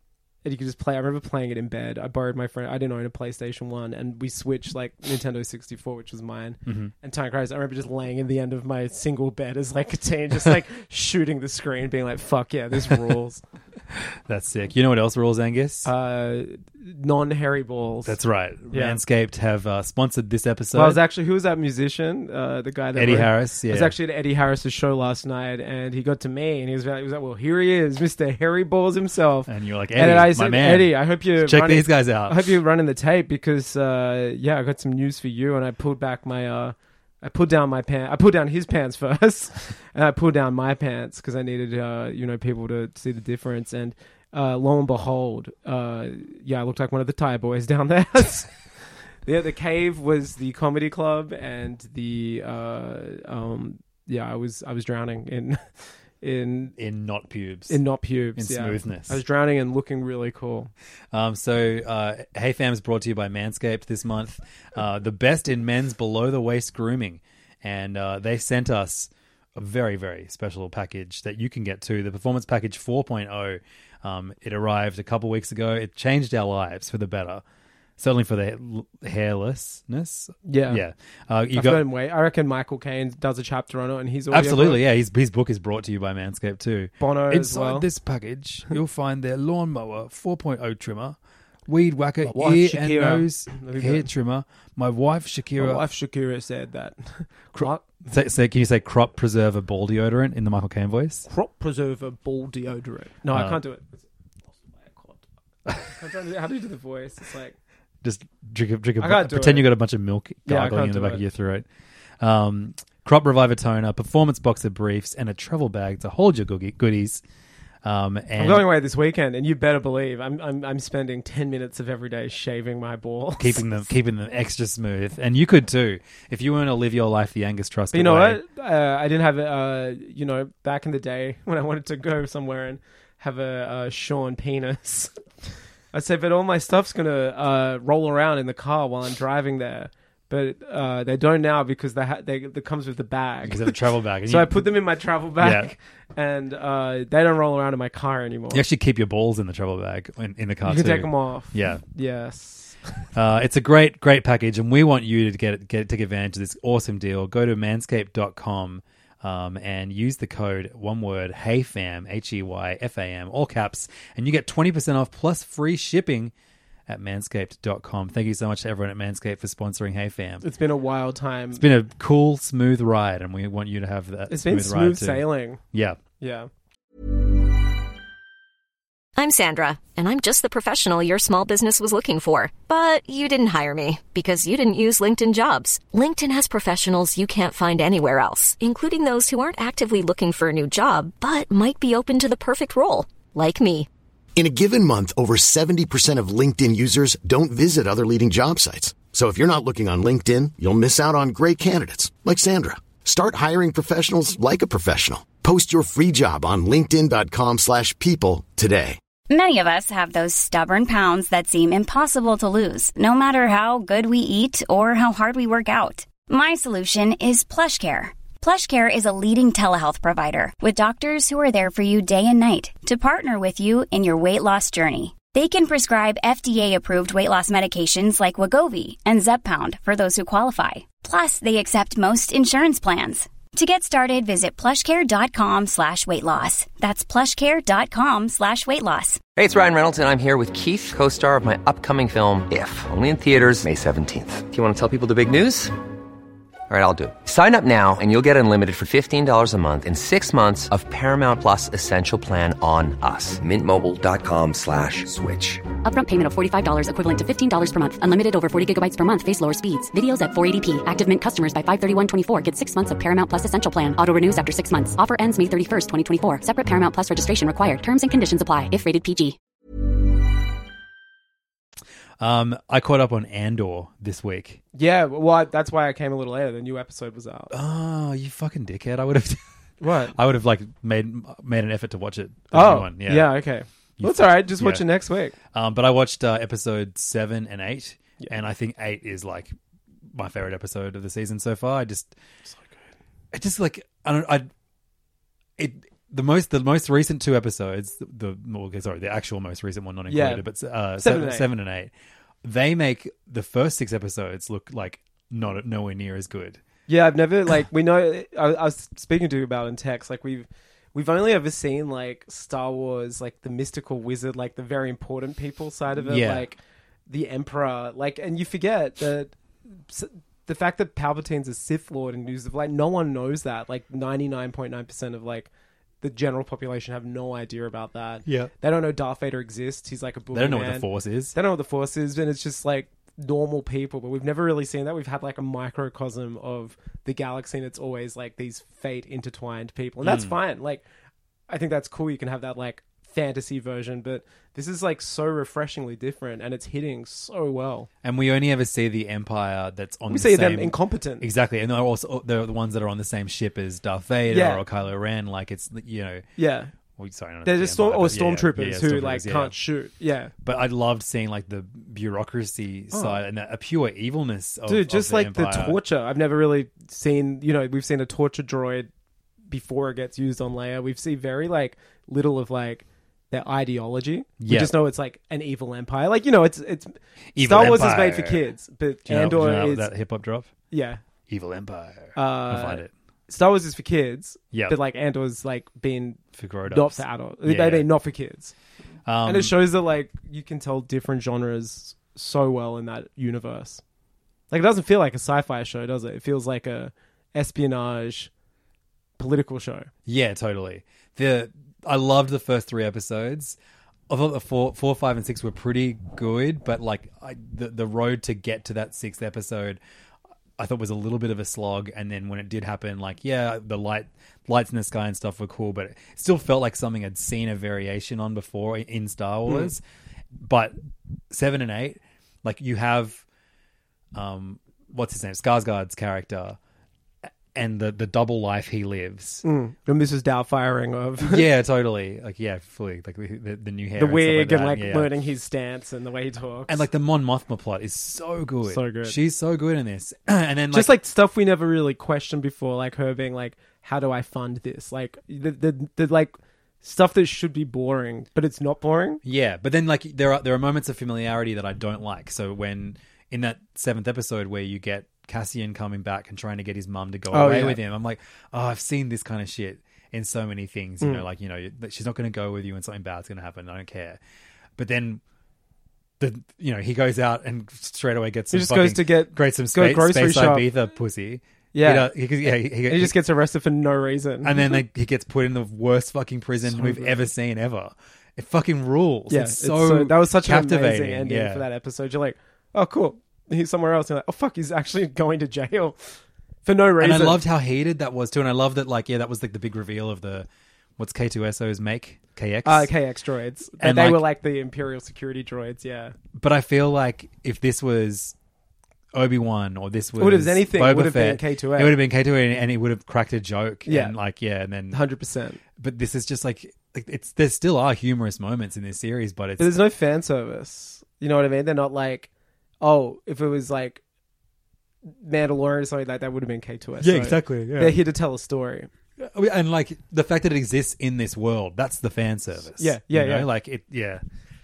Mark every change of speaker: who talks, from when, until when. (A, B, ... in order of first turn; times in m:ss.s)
0:00.4-0:13.4 A
0:06.7-0:06.9 B
0:13.9-0:15.9 B
0:15.8-0:18.2 A
0:18.0-0:21.0 B
0:18.7-0:19.0 A
0:20.7-0:48.5 A
0:23.0-0:24.0 B
0:29.5-0:32.5 B
0:49.2-0:55.6 A
0:56.2-0:56.7 A
0:56.8-0:57.8 B
0:57.7-1:00.7 A
0:58.4-0:59.2 B
1:01.1-1:17.4 B
1:18.0-1:21.8 B
1:20.4-1:20.8 A
1:21.5-1:24.8 A
1:24.3-1:35.8 B
1:27.0-1:27.9 A
1:32.2-1:34.1 A
1:35.6-1:37.8 A
1:37.6-1:41.3 B
1:41.3-1:47.6 A
1:43.3-1:43.6 B
1:48.0-1:51.7 B
1:49.0-1:49.7 A
1:50.5-1:51.2 A
1:52.2-1:57.2 B
1:57.8-1:58.6 B
1:58.4-2:03.8 A
2:03.4-2:08.4 B
2:07.9-2:15.1 A
2:15.9-2:28.6 A
2:23.4-2:24.7 B
2:25.4-2:25.7 B
2:28.5-2:31.8 B
2:30.6-2:33.0 A
2:33.2-2:46.3 B
2:46.9-2:50.4 B
2:50.4-2:51.6 A
2:51.6-2:56.0 B
2:54.3-2:55.6 A
2:56.2-2:56.5 A
2:59.2-3:13.9 C
3:14.4-3:29.0 D
3:29.3-3:59.2 E
3:59.4-4:05.7 F
4:06.7-4:15.6 F
4:15.8-4:29.4 G
4:32.2-4:34.6 B
4:34.8-4:37.5 A
4:37.5-4:43.3 B
4:39.8-4:40.2 A
4:42.5-4:45.4 A
4:44.0-4:44.8 B
4:45.5-4:49.5 B
4:50.1-4:52.2 B
4:53.3-4:54.5 B
4:55.6-5:01.9 B
5:00.1-5:00.4 A
5:01.0-5:01.5 A
5:02.4-5:06.6 B
5:06.9-5:19.4 A
5:16.0-5:16.5 B
5:19.9-5:25.5 A
5:26.0-5:40.8 A
5:28.3-5:28.5 B
5:30.3-5:31.4 B
5:40.0-5:40.4 B
5:41.5-5:47.9 A
5:48.0-5:56.3 B
5:50.1-5:51.3 A
5:54.3-5:54.6 A
5:56.4-5:56.7 A
5:57.0-5:59.6 B
5:57.4-6:00.3 A
6:00.4-6:05.8 B
6:02.9-6:03.2 A
6:04.7-6:08.9 A
6:09.5-6:19.9 A
6:14.4-6:14.8 B
6:17.4-6:18.4 B
6:19.1-6:20.5 B
6:20.7-6:21.0 A
6:21.3-6:22.9 B
6:22.2-6:28.5 A
6:24.5-6:24.8 B
6:26.4-6:27.9 B
6:29.1-6:29.6 B
6:29.2-6:33.8 A
6:34.5-6:38.3 A
6:39.2-6:39.9 A
6:40.1-6:43.6 B
6:44.1-6:49.8 B
6:50.6-6:59.8 B
7:00.4-7:00.8 B
7:01.3-7:03.2 B
7:04.1-7:06.6 B
7:07.5-7:09.4 B
7:09.4-7:11.5 A
7:11.2-7:15.1 B
7:14.0-7:16.8 A
7:16.7-7:20.9 B
7:18.7-7:19.2 A
7:20.7-7:29.2 A
7:29.2-7:44.2 B
7:37.3-7:37.8 A
7:44.8-7:45.2 B
7:46.2-7:53.2 B
7:48.5-7:50.7 A
7:51.7-7:52.1 A
7:52.8-7:54.8 A
7:54.4-8:01.7 B
7:56.6-7:57.2 A
7:59.3-8:07.4 A
8:07.0-8:12.9 B
8:12.6-8:16.2 A
8:13.8-8:14.2 B
8:16.4-8:18.4 B
8:19.1-8:25.0 B
8:20.2-8:22.0 A
8:23.9-8:24.2 A
8:24.9-8:25.6 A
8:25.8-8:29.8 B
8:29.6-8:32.3 A
8:32.8-8:34.0 A
8:35.1-8:38.9 A
8:37.0-8:38.0 B
8:39.2-8:44.2 B
8:42.8-8:43.5 A